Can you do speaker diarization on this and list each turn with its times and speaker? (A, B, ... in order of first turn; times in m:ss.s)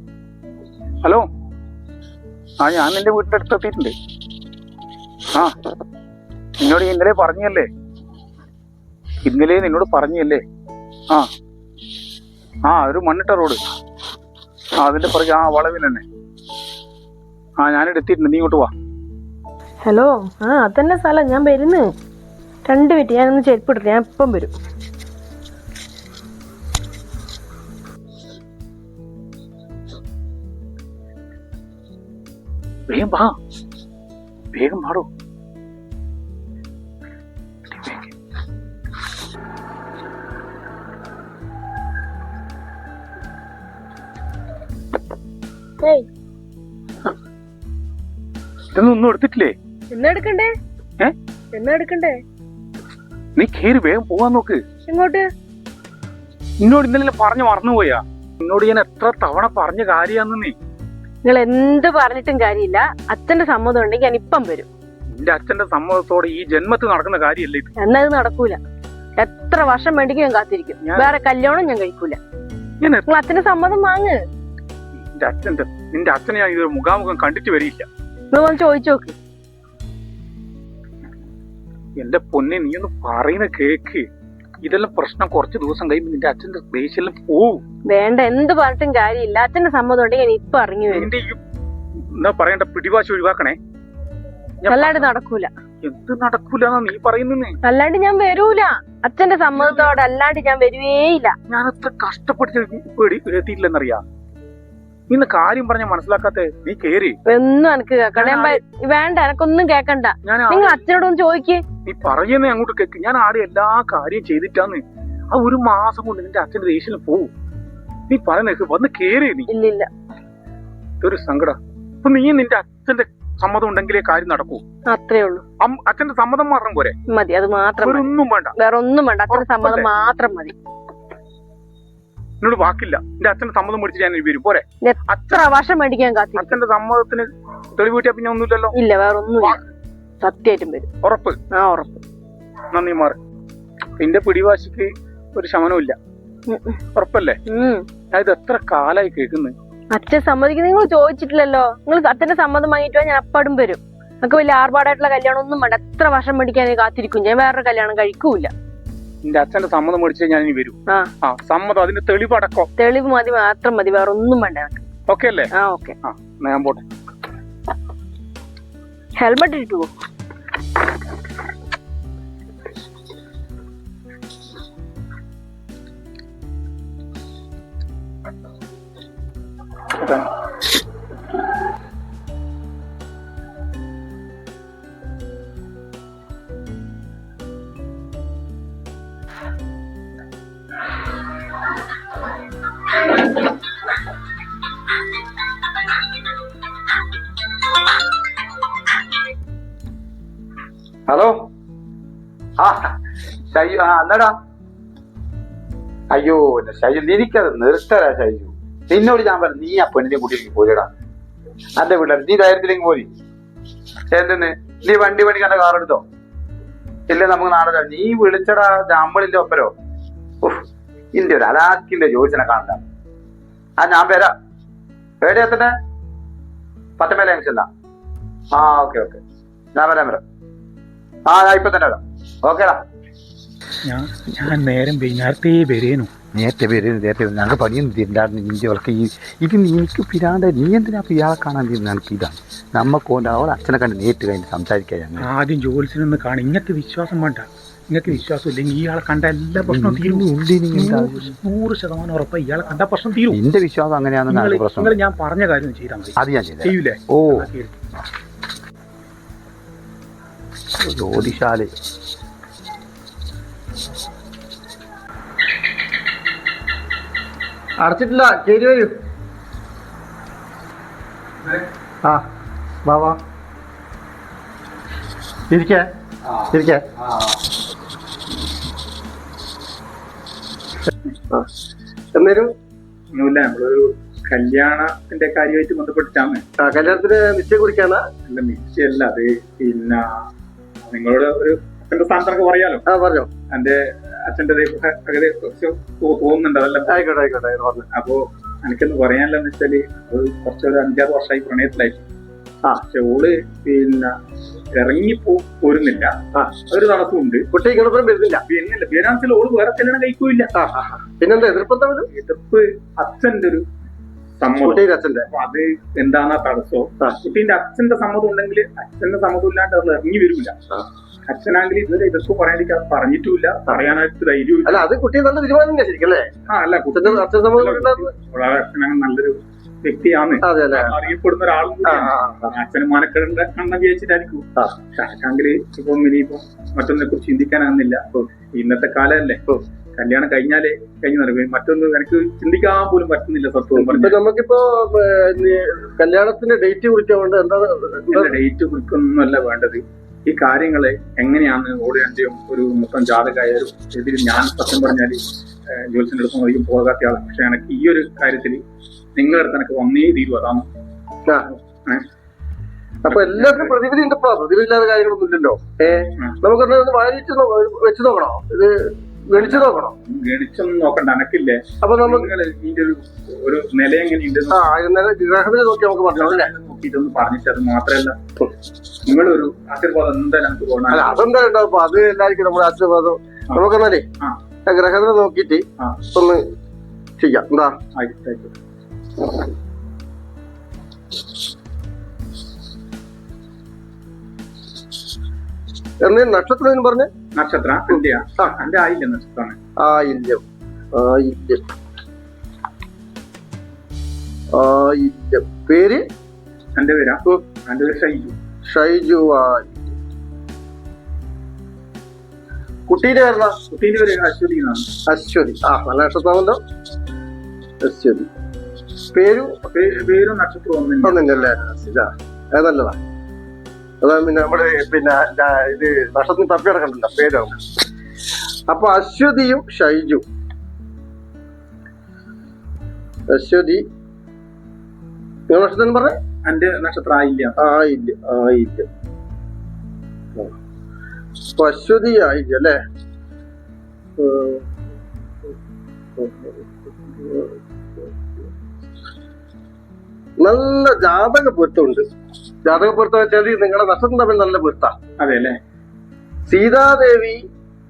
0:02.6-0:04.0 A
0:06.6-0:07.7 A
0:09.2-0:10.4 A
0:12.6-0:13.6 A
0:14.8-0:16.0 A
0:17.6-0:18.7 A
0:19.8-0:21.9 B
0:22.6-0:24.6 B
0:32.9-0:33.3 A
0:34.5-0:35.1 A
0:37.7-0:38.1 A
0:45.8-0:46.1 B
0:48.7-0:49.6 A
0:49.9-0:50.5 B
0:51.5-0:52.2 B
0:53.4-0:54.6 A
0:54.9-0:55.3 B
0:56.6-1:00.6 A
1:01.2-1:04.7 B
1:05.1-1:07.7 A
1:07.8-1:08.6 B
1:09.2-1:12.2 B
1:10.8-1:11.1 A
1:12.8-1:13.1 A
1:13.1-1:14.2 B
1:15.1-1:17.9 A
1:18.3-1:19.2 B
1:22.0-1:24.1 A
1:24.6-1:27.6 A
1:27.9-1:31.1 B
1:30.9-1:31.4 A
1:32.1-1:33.6 A
1:34.6-1:35.1 A
1:34.7-1:35.5 B
1:35.8-1:37.6 A
1:37.6-1:41.4 B
1:39.5-1:40.0 A
1:41.5-1:44.0 A
1:45.1-1:47.2 A
1:47.3-1:51.6 B
1:48.2-1:48.6 A
1:50.2-1:50.8 A
1:51.8-1:57.3 A
1:58.1-1:59.5 A
1:59.5-1:59.9 B
2:01.0-2:04.6 A
2:04.9-2:05.4 B
2:05.6-2:07.0 A
2:07.1-2:10.6 B
2:07.8-2:08.6 A
2:09.3-2:09.9 A
2:12.4-2:15.4 A
2:14.8-2:16.5 B
2:16.4-2:18.8 A
2:18.7-2:19.6 B
2:20.2-2:20.9 B
2:21.0-2:21.4 A
2:21.5-2:22.0 B
2:22.7-2:23.2 A
2:24.0-2:26.0 A
2:26.5-2:26.8 B
2:27.0-2:27.4 A
2:27.5-2:27.9 B
2:28.1-2:29.6 A
2:29.9-2:38.5 B
2:39.2-2:42.7 A
2:42.8-2:44.8 B
2:45.1-2:45.5 A
2:45.5-2:46.0 B
2:46.0-2:46.9 A
2:49.2-2:49.9 B
3:00.0-3:00.3 A
3:21.1-3:21.5 C
3:22.6-3:22.9 C
3:23.5-3:24.4 C
3:26.1-3:30.9 C
3:31.8-3:33.1 C
3:34.1-3:36.0 C
3:37.1-3:39.7 C
3:40.4-3:42.8 C
3:43.8-3:44.3 C
3:45.2-3:45.7 C
3:47.0-3:47.7 C
3:48.5-3:49.2 C
3:49.8-3:50.2 C
3:51.3-3:52.8 C
3:53.9-3:56.1 A
3:56.3-4:05.3 C
4:05.2-4:13.4 A
4:09.6-4:11.4 C
4:13.3-4:14.9 C
4:14.3-4:17.7 A
4:16.2-4:17.5 C
4:20.8-4:21.7 C
4:27.8-4:29.0 D
4:32.8-4:33.2 D
4:35.5-4:35.9 D
4:36.5-4:36.9 D
4:42.2-4:42.5 D
4:43.1-4:46.4 A
4:46.6-4:48.0 D
4:48.3-4:50.3 A
4:50.9-4:52.8 A
4:52.9-4:53.3 D
4:53.5-4:57.0 A
4:56.9-4:57.9 D
4:57.9-5:02.1 A
5:02.7-5:04.2 A
5:04.8-5:06.2 A
5:06.7-5:07.5 A
5:07.5-5:08.4 D
5:08.5-5:10.5 A
5:10.6-5:12.1 D
5:12.1-5:13.6 A
5:14.4-5:20.6 A
5:14.6-5:15.3 D
5:21.3-5:24.9 A
5:24.7-5:26.3 D
5:26.5-5:39.4 A
5:26.9-5:28.1 D
5:30.4-5:30.9 D
5:31.8-5:32.5 D
5:40.0-5:44.2 A
5:43.7-5:48.4 D
5:48.1-5:58.6 A
5:59.2-6:00.6 A
6:01.5-6:02.0 A
6:03.0-6:09.9 D
6:03.1-6:03.8 A
6:09.3-6:14.6 A
6:11.8-6:12.3 D
6:14.5-6:16.5 D
6:16.2-6:18.2 A
6:19.1-6:21.2 A
6:20.9-6:24.0 D
6:24.7-6:26.4 D
6:27.2-6:27.8 D
6:28.0-6:28.6 A
6:36.0-6:37.1 D
6:37.4-6:39.6 A
6:39.8-6:40.4 D
6:40.9-6:41.6 D
6:44.5-6:46.0 D
6:46.8-6:48.3 A
6:48.7-6:50.0 D
6:52.9-6:53.6 D
6:53.7-6:54.9 A
6:55.1-6:56.6 D
6:57.8-6:58.3 D
6:59.1-6:59.5 D
6:59.7-7:01.2 A
7:01.0-7:03.0 D
7:04.0-7:07.6 D
7:08.7-7:10.2 D
7:13.3-7:13.8 D
7:15.5-7:16.2 D
7:16.4-7:17.5 A
7:17.6-7:18.9 D
7:21.6-7:22.8 D
7:24.2-7:24.6 D
7:26.2-7:28.5 D
7:30.4-7:32.0 D
7:32.6-7:34.9 D
7:35.2-7:35.6 A
7:36.5-7:37.4 D